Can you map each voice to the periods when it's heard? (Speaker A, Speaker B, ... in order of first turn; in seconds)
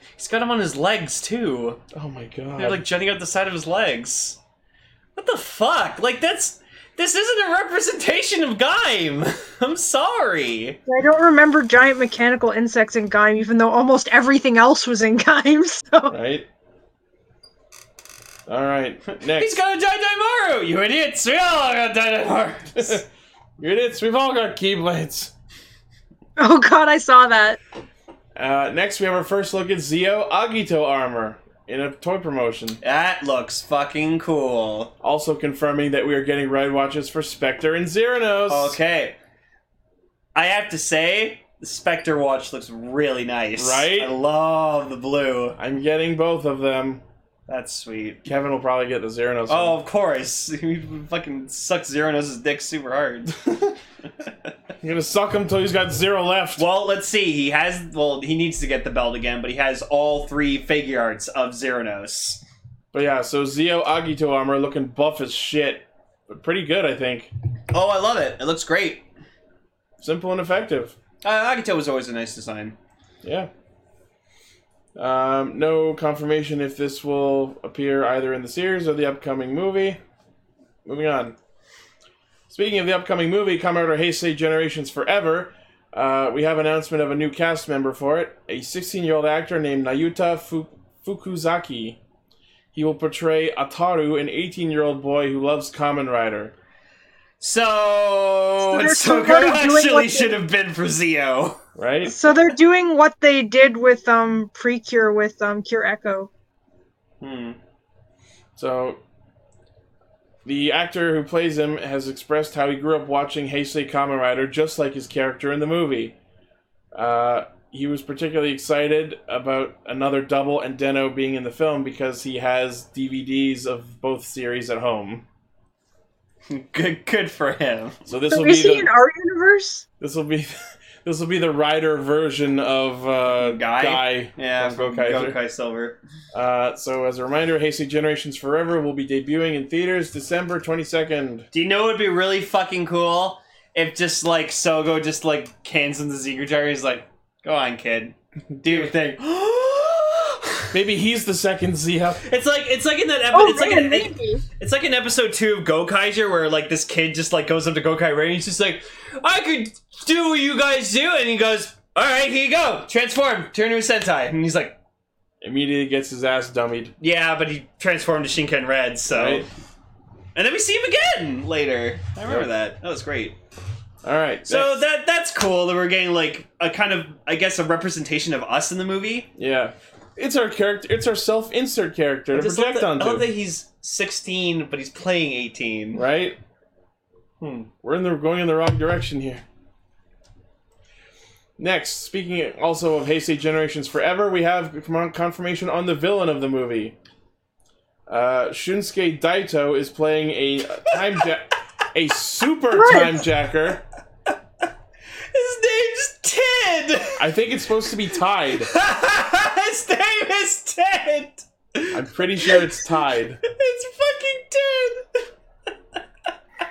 Speaker A: 0.2-1.8, 2.6-4.4, 5.2-10.8, 19.1-23.0, 32.8-34.9, 38.5-39.2, 40.4-45.6, 47.5-48.2, 49.5-53.4, 56.6-62.4, 67.7-69.0, 71.2-72.8, 97.4-101.6, 107.2-107.6, 126.5-128.0, 133.4-136.0, 141.5-150.7, 152.2-164.8, 167.0-169.5, 170.3-173.3, 174.5-179.3, 182.3-186.1, 187.4-187.7, 200.9-201.2, 205.3-207.3, 208.6-212.7, 213.4-215.2
Speaker B: 1.9-2.8, 16.1-16.5, 18.5-19.6, 22.8-23.0, 23.6-25.3, 28.4-32.8, 35.0-38.8, 43.6-44.1, 45.6-47.0, 48.2-49.8, 53.5-53.7, 54.8-56.6, 62.9-67.3, 70.0-71.0, 73.2-73.5, 75.0-80.0, 80.8-81.3, 82.5-92.0, 92.7-96.5, 101.8-102.1, 108.6-109.0, 110.5-116.2, 116.9-125.2, 128.1-128.9, 130.0-135.4, 136.3-141.5, 148.6-148.9, 150.7-152.2, 165.4-166.9, 169.1-169.5, 174.0-174.8, 179.4-183.3, 185.9-186.4, 187.8-189.4, 191.6-196.9, 198.1-203.8, 207.2-208.7, 211.9-213.4
Speaker C: 10.9-16.1, 26.4-27.6, 98.6-100.3, 102.1-106.3, 128.3-129.8, 153.3-154.4, 202.7-203.2